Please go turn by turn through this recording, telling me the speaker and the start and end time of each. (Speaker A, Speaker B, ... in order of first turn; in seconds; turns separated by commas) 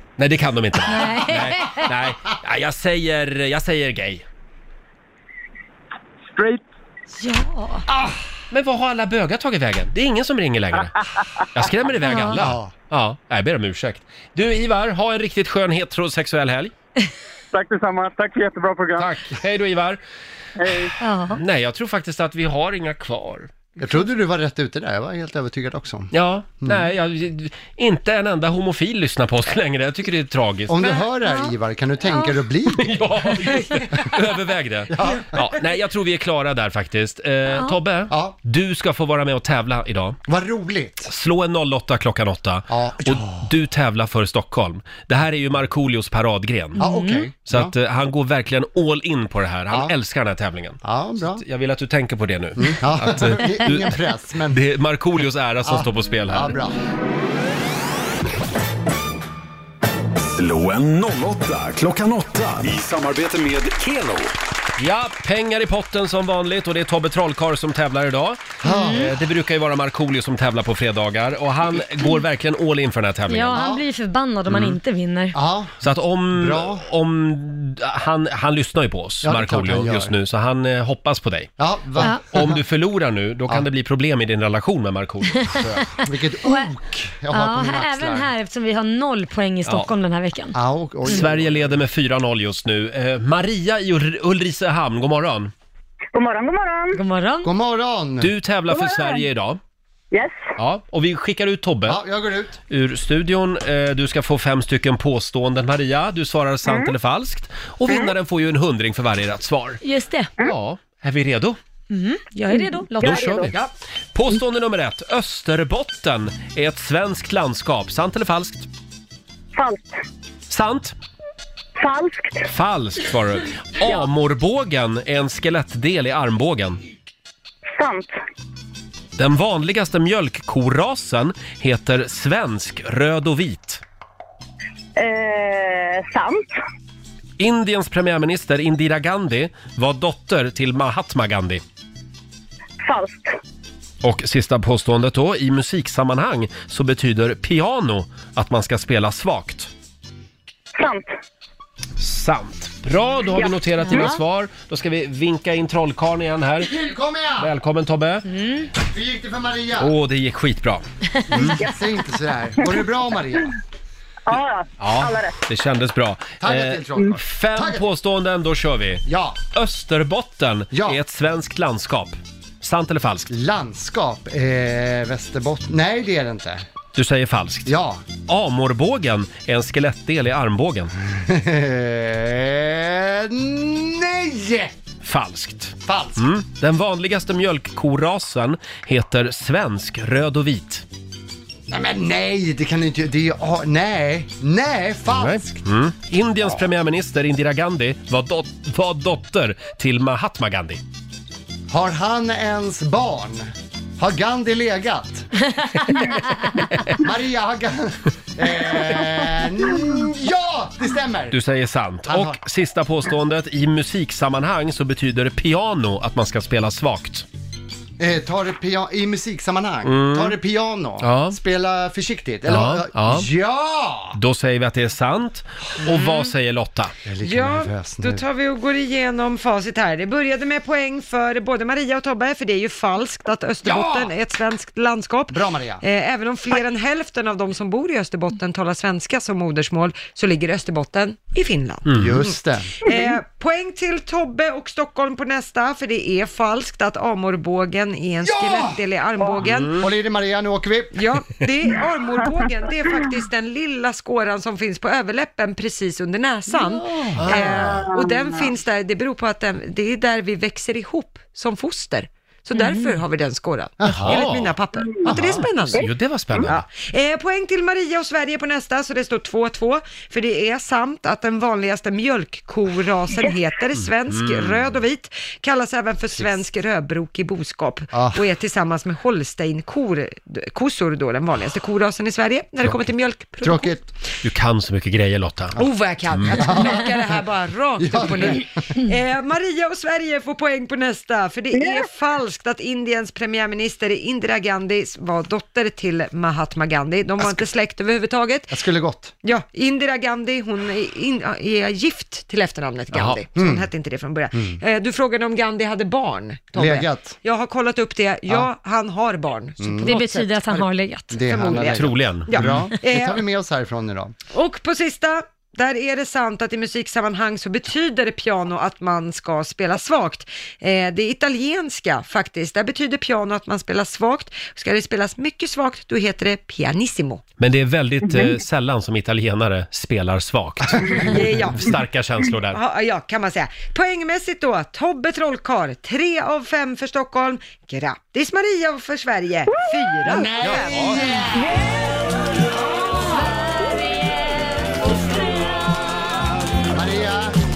Speaker A: 0.2-4.2, Speaker B: 0.9-1.9, Speaker C: 6.3-6.6, Speaker B: 7.2-7.9, Speaker A: 8.5-11.0, Speaker A: 11.5-16.7, Speaker B: 12.1-12.4, Speaker D: 12.4-12.7, Speaker C: 17.5-19.1, Speaker A: 19.0-20.0, Speaker C: 20.6-20.9, Speaker B: 21.0-21.4, Speaker A: 21.4-23.5, Speaker D: 23.8-26.9, Speaker A: 26.1-30.8, Speaker D: 30.7-33.0, Speaker B: 31.2-31.6, Speaker B: 32.1-32.4, Speaker A: 32.8-40.2, Speaker D: 34.9-35.5, Speaker D: 38.1-38.4, Speaker D: 40.3-41.1, Speaker A: 41.1-46.8, Speaker D: 42.7-43.5, Speaker B: 46.8-47.3, Speaker D: 46.8-47.7, Speaker A: 47.5-54.0, Speaker D: 50.8-51.4, Speaker D: 52.6-54.6, Speaker A: 54.5-56.6, Speaker D: 55.6-56.8, Speaker E: 60.3-64.3, Speaker A: 64.8-73.6, Speaker D: 68.6-69.1, Speaker B: 68.6-69.1, Speaker B: 73.3-75.4, Speaker D: 73.5-73.8, Speaker A: 74.5-74.8, Speaker D: 75.3-76.9, Speaker A: 75.8-85.6, Speaker D: 79.2-80.1, Speaker D: 81.6-82.6, Speaker D: 85.5-88.3, Speaker B: 86.4-86.7, Speaker B: 87.3-91.2, Speaker D: 90.5-91.8, Speaker A: 91.1-95.5, Speaker F: 96.1-97.0, Speaker B: 97.0-97.5, Speaker D: 97.4-98.3, Speaker A: 98.2-99.6, Speaker F: 98.7-99.2, Speaker F: 100.1-100.4, Speaker A: 100.6-102.0, Speaker D: 101.9-102.6, Speaker A: 102.7-109.8, Speaker F: 106.7-106.9, Speaker B: 109.8-110.3, Speaker A: 110.4-111.6, Speaker B: 111.9-113.4, Speaker F: 113.0-113.6, Speaker A: 113.0-113.5, Speaker A: 114.1-118.7, Speaker F: 119.5-120.0, Speaker A: 120.5-121.0, Speaker F: 121.8-122.5, Speaker A: 122.5-126.8, Speaker F: 127.8-128.2, Speaker A: 129.2-133.8, Speaker F: 135.0-136.5, Speaker A: 137.4-141.6, Speaker F: 142.8-143.4, Speaker A: 144.0-149.7, Speaker F: 150.8-151.1, Speaker A: 152.0-156.7, Speaker B: 153.9-154.2, Speaker D: 156.6-157.5, Speaker A: 157.4-158.3, Speaker B: 158.3-158.7, Speaker D: 158.8-159.9, Speaker A: 159.8-161.6, Speaker D: 161.3-163.5, Speaker F: 164.3-165.3, Speaker A: 164.8-173.3, Speaker D: 166.4-167.8, Speaker D: 169.1-169.4, Speaker D: 170.7-171.0, Speaker D: 173.3-176.6, Speaker A: 176.9-177.7, Speaker D: 177.7-178.0, Speaker A: 178.3-180.9, Speaker D: 181.0-184.7, Speaker A: 185.0-190.8, Speaker D: 185.8-186.3, Speaker D: 191.7-195.6, Speaker A: 195.1-200.8, Speaker D: 201.7-203.5, Speaker D: 204.0-205.3, Speaker A: 205.9-206.9, Speaker D: 207.0-211.4, Speaker A: 211.3-217.3, Speaker D: 212.1-212.4, Speaker D: 218.0-224.2, Speaker A: 219.8-220.4, Speaker A: 221.0-221.4, Speaker A: 222.5-223.3, Speaker A: 224.2-226.9, Speaker D: 227.1-228.2, Speaker G: 227.2-249.8, Speaker D: 233.7-234.1, Speaker D: 235.3-235.8, Speaker A: 241.9-242.3, Speaker D: 241.9-242.8, Speaker D: 248.2-248.8, Speaker A: 249.4-249.9, Speaker D: 249.8-251.2, Speaker G: 250.9-283.8, Speaker D: 256.7-257.9, Speaker A: 257.2-257.7, Speaker B: 262.5-263.0, Speaker D: 263.8-264.3, Speaker A: 263.9-264.6, Speaker D: 265.1-265.5, Speaker A: 265.4-266.6, Speaker A: 273.8-274.7, Speaker D: 277.9-278.2, Speaker D: 283.4-283.8, Speaker A: 284.2-285.6, Speaker G: 285.6-298.6, Speaker A: 286.1-286.4, Speaker D: 286.3-286.9, Speaker D: 287.8-288.5, Speaker F: 291.5-291.8, Speaker D: 298.5-299.1, Speaker G: 299.2-313.2, Speaker A: 302.9-303.2, Speaker D: 303.4-303.7, Speaker D: 306.6-307.1, Speaker D: 309.6-310.0, Speaker B: 309.9-311.4, Speaker D: 311.1-314.1, Speaker A: 311.7-312.6, Speaker G: 314.3-327.2, Speaker A: 327.4-332.6, Speaker G: 330.9-331.8, Speaker G: 332.4-340.7, Speaker F: 339.5-339.8, Speaker D: 340.1-341.5, Speaker A: 340.4-341.0, Speaker F: 341.4-341.9, Speaker B: 343.3-344.2, Speaker D: 346.7-347.4